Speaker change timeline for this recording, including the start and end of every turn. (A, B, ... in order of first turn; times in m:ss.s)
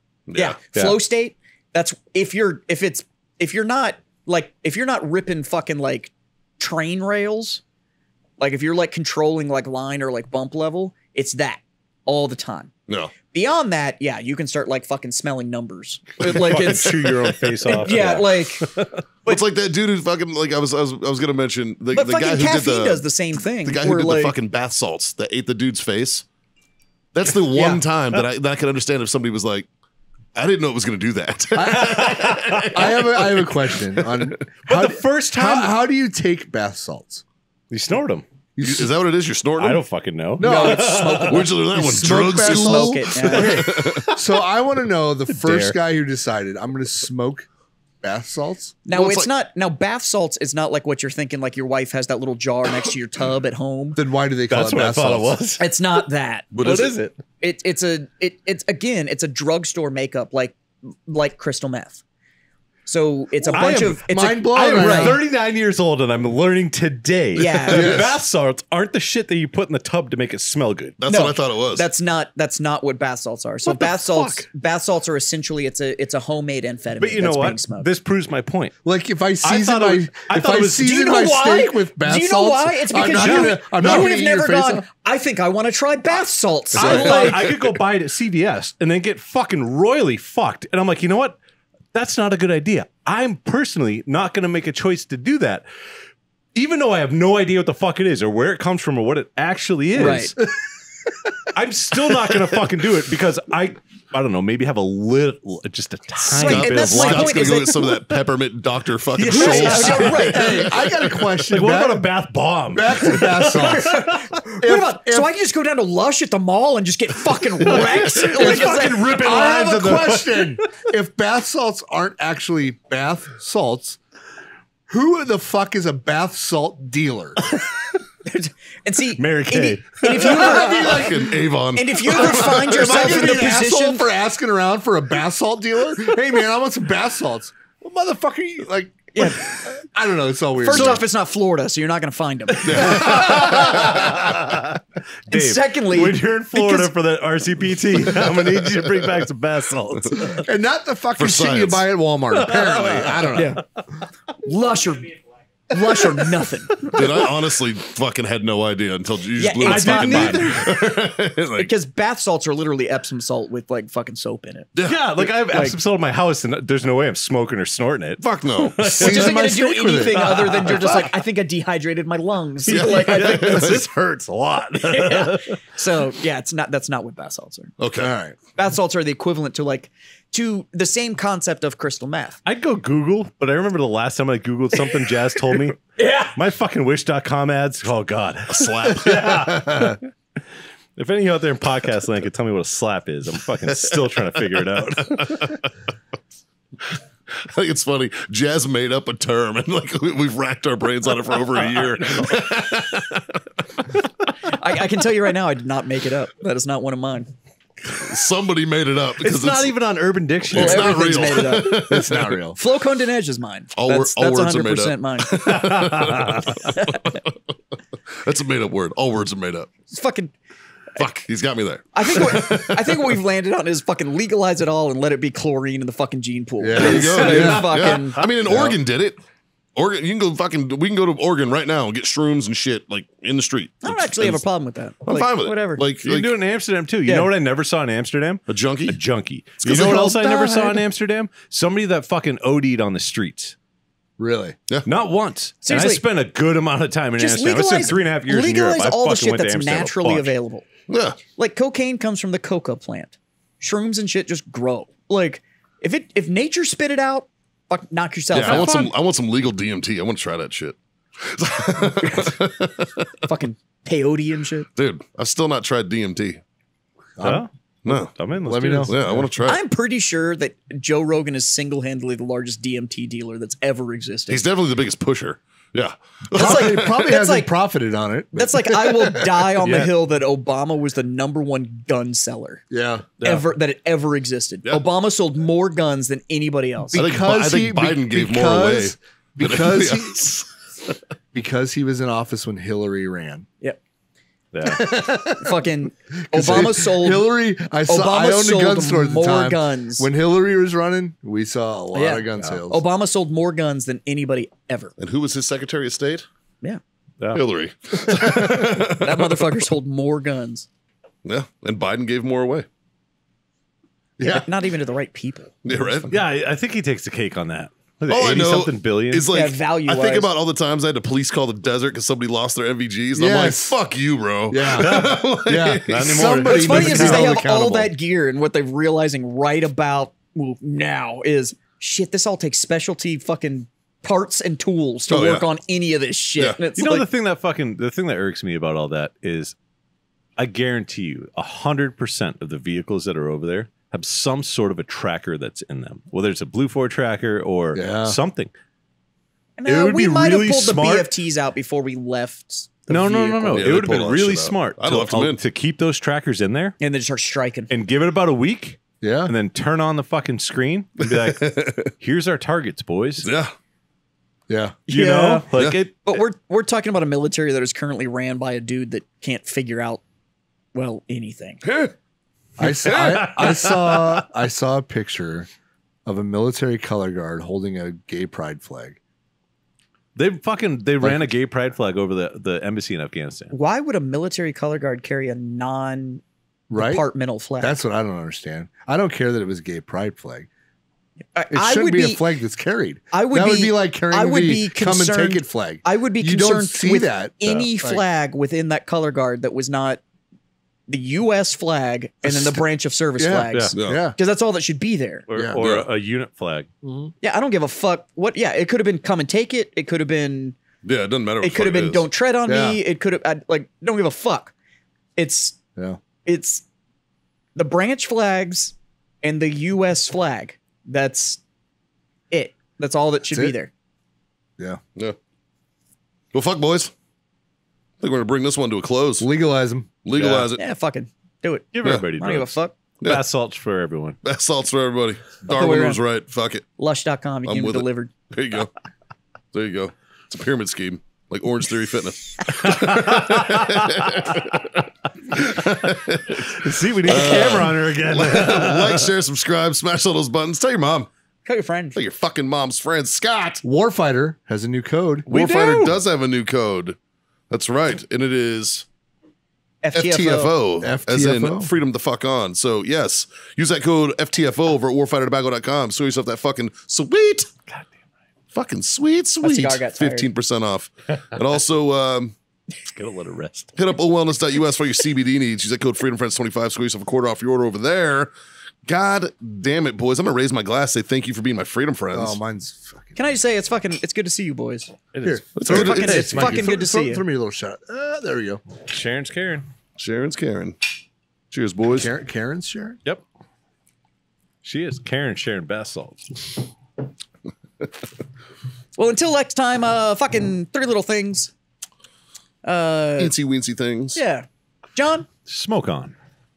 0:00.3-0:00.6 A
0:00.4-0:07.6 B
0:00.7-0:01.0 C
0:08.4-0:12.7 B
0:12.9-0:13.1 A
0:13.3-0:18.7 B
0:16.2-0:19.0 C
0:19.3-0:26.3 A
0:21.9-0:24.3 B
0:27.1-0:29.7 A
0:27.5-0:27.8 B
0:30.4-0:33.3 A
0:31.6-0:37.2 D
0:31.6-0:33.4 C
0:34.7-0:35.8 C
0:37.7-0:38.2 C
0:38.6-0:38.9 D
0:38.6-0:39.8 A
0:39.6-0:41.5 C
0:40.4-0:43.6 D
0:40.4-0:41.3 B
0:41.2-0:44.1 A
0:42.0-0:43.8 B
0:43.2-0:44.2 C
0:44.2-0:47.5 D
0:45.3-0:45.8 C
0:48.0-0:48.8 D
0:48.8-0:54.0 B
0:48.9-0:49.3 A
0:54.0-0:55.4 D
0:54.5-0:55.8 C
0:55.6-0:56.5 B
0:56.5-0:57.0 A
0:56.6-0:57.2 C
0:57.4-1:02.0 B
1:02.9-1:05.2 B
1:03.5-1:11.0 C
1:04.1-1:05.2 D
1:07.4-1:08.1 B
1:07.7-1:08.2 D
1:11.0-1:11.9 A
1:11.1-1:17.9 B
1:13.6-1:14.5 C
1:17.0-1:18.7 C
1:18.8-1:24.9 D
1:19.4-1:21.2 C
1:20.8-1:27.5 B
1:23.0-1:24.2 C
1:26.8-1:31.4 C
1:31.9-1:35.6 C
1:36.6-1:40.4 C
1:40.0-1:40.3 B
1:40.0-1:40.5 D
1:41.5-1:47.6 C
1:42.2-1:42.6 D
1:46.2-1:48.0 B
1:46.4-1:50.6 A
1:49.2-1:50.8 C
1:49.3-1:50.6 B
1:49.9-1:52.1 D
1:51.5-1:54.4 C
1:52.7-1:55.3 D
1:53.5-1:59.1 B
1:57.6-2:00.7 C
1:58.2-2:04.0 D
2:04.9-2:07.4 D
2:08.2-2:11.0 B
2:09.2-2:11.1 C
2:10.4-2:13.0 A
2:10.8-2:11.1 D
2:11.7-2:14.0 B
2:12.5-2:21.0 D
2:19.1-2:19.4 B
2:20.6-2:23.1 B
2:20.7-2:21.0 A
2:22.6-2:24.0 A
2:22.7-2:30.4 C
2:22.8-2:24.2 D
2:25.3-2:26.9 B
2:28.0-2:29.1 A
2:30.4-2:33.6 D
2:31.2-2:31.8 A
2:32.4-2:33.5 C
2:33.4-2:33.6 B
2:34.4-2:35.2 B
2:35.7-2:37.0 B
2:36.9-2:41.7 A
2:39.4-2:40.8 B
2:39.6-2:40.6 C
2:41.6-2:45.8 B
2:44.8-2:49.4 C
2:48.2-2:49.0 A
2:48.9-2:50.6 D
2:49.0-2:53.8 B
2:50.1-2:51.1 C
2:52.7-2:53.8 A
2:52.7-2:55.6 C
2:54.8-2:57.7 B
2:57.8-2:58.1 A
2:58.0-2:58.4 D
2:58.6-3:02.4 B
3:02.5-3:10.0 C
3:06.0-3:06.3 B
3:08.5-3:09.6 A
3:09.4-3:10.0 D
3:11.0-3:15.6 C
3:13.7-3:15.7 A
3:16.8-3:23.4 A
3:24.4-3:27.3 B
3:27.9-3:29.7 A
3:29.2-3:31.3 C
3:30.4-3:32.4 A
3:30.5-3:31.9 B
3:31.7-3:32.6 D
3:32.6-3:35.4 B
3:33.8-3:37.3 A
3:35.4-3:36.7 C
3:38.1-3:39.7 A
3:39.9-3:40.3 B
3:41.0-3:43.2 A
3:41.9-3:48.2 B
3:46.6-3:47.8 D
3:46.8-3:49.2 A
3:48.5-3:48.8 D
3:49.8-3:54.4 A
3:53.8-3:55.8 B
3:55.0-3:56.3 A
3:56.0-4:03.6 C
3:58.5-3:59.0 A
3:59.6-4:00.8 B
4:04.2-4:04.6 D
4:04.9-4:10.3 C
4:05.6-4:06.0 B
4:07.2-4:10.7 B
4:10.9-4:11.2 A
4:11.3-4:18.9 B
4:18.3-4:23.3 A
4:18.4-4:18.7 C
4:22.0-4:22.3 B
4:23.2-4:24.7 B
4:24.8-4:26.4 A
4:27.2-4:27.5 D
4:27.2-4:29.2 C
4:27.9-4:28.1 A
4:28.4-4:29.2 D
4:28.8-4:29.6 A
4:29.4-4:34.5 B
4:34.3-4:36.8 A
4:36.3-4:39.5 D
4:36.4-4:37.5 B
4:38.4-4:42.6 B
4:39.6-4:39.9 C
4:42.7-4:43.1 D
4:43.2-4:43.5 C
4:43.2-4:47.0 B
4:46.9-4:50.2 D
4:47.0-4:50.5 A
4:51.3-4:53.5 D
4:54.5-4:54.9 C
4:54.6-4:55.6 D
4:55.3-4:57.3 B
4:56.3-5:02.8 D
4:57.9-5:00.1 B
5:01.9-5:05.0 B
5:05.0-5:06.3 A
5:07.3-5:09.5 A
5:08.1-5:08.6 D
5:09.0-5:10.7 B
5:11.2-5:12.7 A
5:14.2-5:14.5 D
5:14.2-5:15.5 B
5:15.6-5:16.2 A
5:16.1-5:19.3 C
5:18.1-5:26.5 A
5:19.3-5:20.3 B
5:23.2-5:23.8 D
5:24.5-5:27.9 D
5:24.8-5:25.1 C
5:25.9-5:27.3 C
5:26.5-5:37.1 B
5:35.1-5:35.5 A
5:36.8-5:39.6 C
5:40.4-5:48.5 C
5:47.7-5:48.2 D
5:49.6-5:53.7 B
5:49.7-5:51.1 C
5:52.9-5:56.8 C
5:53.5-5:55.4 A
5:56.8-5:57.7 B
5:57.7-6:03.3 C
5:59.0-5:59.3 D
6:01.1-6:01.9 A
6:03.2-6:03.5 A
6:04.5-6:04.8 D
6:04.9-6:05.5 B
6:04.9-6:06.2 C
6:06.0-6:10.0 B
6:10.7-6:11.6 B
6:11.6-6:11.9 A
6:12.6-6:15.5 D
6:12.6-6:14.2 C
6:16.0-6:19.0 D
6:20.2-6:23.5 C
6:23.5-6:26.2 B
6:26.7-6:27.0 D
6:26.7-6:27.8 B
6:27.6-6:30.5 D
6:31.4-6:32.3 B
6:31.5-6:38.0 D
6:33.1-6:40.0 B
6:40.9-6:45.2 B
6:43.2-6:44.2 D
6:43.8-6:44.0 A
6:45.3-6:46.7 C
6:45.3-6:45.6 D
6:45.6-6:45.9 A
6:46.8-6:47.1 D
6:47.2-6:50.6 B
6:50.8-6:52.1 A
6:51.4-6:54.5 B
6:52.5-6:52.8 D
6:55.2-6:55.6 B
6:56.2-6:56.7 B
6:57.6-7:01.4 B
7:02.3-7:03.7 B
7:06.3-7:06.9 A
7:08.0-7:09.3 A
7:09.2-7:09.9 D
7:10.0-7:10.6 A
7:10.2-7:10.5 C
7:10.6-7:12.7 B
7:11.8-7:14.2 C
7:14.2-7:16.7 A
7:15.5-7:16.0 B
7:16.8-7:18.1 B
7:17.5-7:18.7 A
7:19.5-7:31.1 A
7:22.8-7:24.3 C
7:26.4-7:29.1 C
7:27.1-7:27.6 B
7:31.4-7:32.0 B
7:32.0-7:33.6 A
7:33.6-7:35.3 D
7:35.3-7:36.0 C
7:35.3-7:37.0 A
7:37.5-7:38.9 A
7:39.8-7:40.5 B
7:39.9-7:47.5 A
7:40.8-7:41.7 D
7:48.5-7:52.3 A
7:49.4-7:50.3 B
7:52.9-7:53.8 C
7:53.8-7:58.3 A
7:58.9-8:02.4 A
8:02.1-8:03.2 D
8:03.2-8:04.9 B
8:05.1-8:06.6 C
8:05.2-8:08.6 D
8:05.6-8:06.6 A
8:05.6-8:07.2 B
8:08.9-8:09.7 C
8:10.0-8:10.8 A
8:11.5-8:12.1 A
8:12.0-8:13.0 D
8:14.6-8:16.6 C
8:19.0-8:21.5 B
8:22.6-8:23.3 B
8:23.2-8:24.2 A
8:24.2-8:25.3 B
8:25.5-8:26.2 C